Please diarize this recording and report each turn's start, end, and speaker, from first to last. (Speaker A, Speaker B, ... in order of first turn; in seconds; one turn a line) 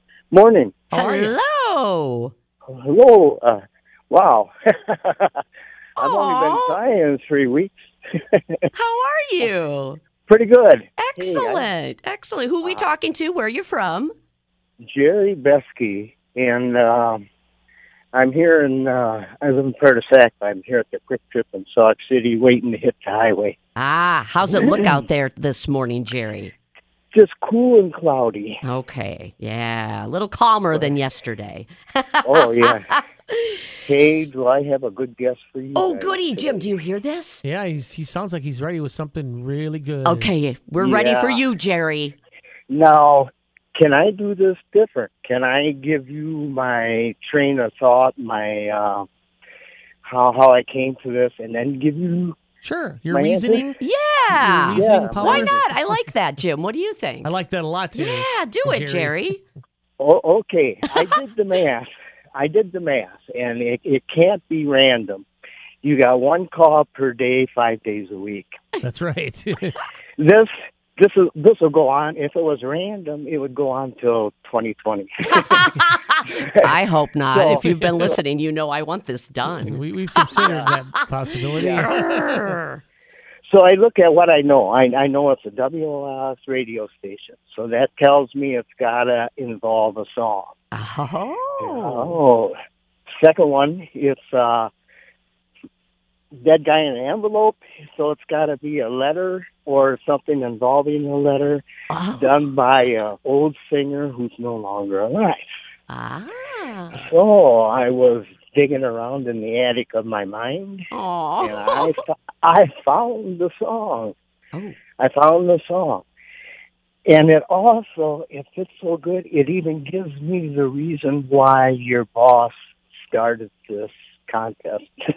Speaker A: 0.3-0.8
Speaker B: 0.9-2.3
Speaker C: 0.9-1.4
Speaker A: 2.7-3.6
Speaker A: 4.1-4.5
Speaker B: 6.0-6.8
Speaker A: 6.0-7.7
Speaker B: 8.7-10.0
Speaker A: 10.2-11.7
Speaker B: 11.0-14.1
Speaker A: 14.8-17.2
Speaker A: 18.1-23.5
Speaker B: 23.8-26.5
Speaker A: 24.5-24.9
Speaker A: 27.1-28.6
Speaker B: 28.6-34.2
Speaker A: 32.2-33.0
Speaker A: 33.9-36.7
Speaker B: 35.8-37.4
Speaker C: 37.4-40.3
Speaker B: 40.0-42.2
Speaker A: 40.8-41.4
Speaker A: 42.7-49.1
Speaker A: 50.0-52.3
Speaker C: 52.6-53.8
Speaker A: 53.1-53.7
Speaker B: 53.8-57.3
Speaker C: 54.3-56.0
Speaker A: 54.7-55.6
Speaker C: 57.2-59.2
Speaker B: 57.9-59.4
Speaker A: 60.0-65.2
Speaker A: 65.8-68.5
Speaker C: 68.8-69.7
Speaker A: 70.2-75.7
Speaker B: 75.3-81.0
Speaker A: 77.4-77.8
Speaker C: 77.6-78.1
Speaker C: 79.6-82.6
Speaker A: 80.4-80.7
Speaker B: 81.6-82.8
Speaker A: 83.5-90.5
Speaker B: 90.7-92.2
Speaker A: 91.6-92.5
Speaker A: 93.2-94.7
Speaker A: 96.4-101.6
Speaker B: 101.9-102.6
Speaker A: 102.2-105.5
Speaker B: 105.9-107.0
Speaker A: 107.0-110.9
Speaker B: 110.9-112.0
Speaker A: 111.4-114.2
Speaker B: 114.5-114.8
Speaker A: 115.0-116.0
Speaker A: 117.1-122.5
Speaker A: 123.1-124.8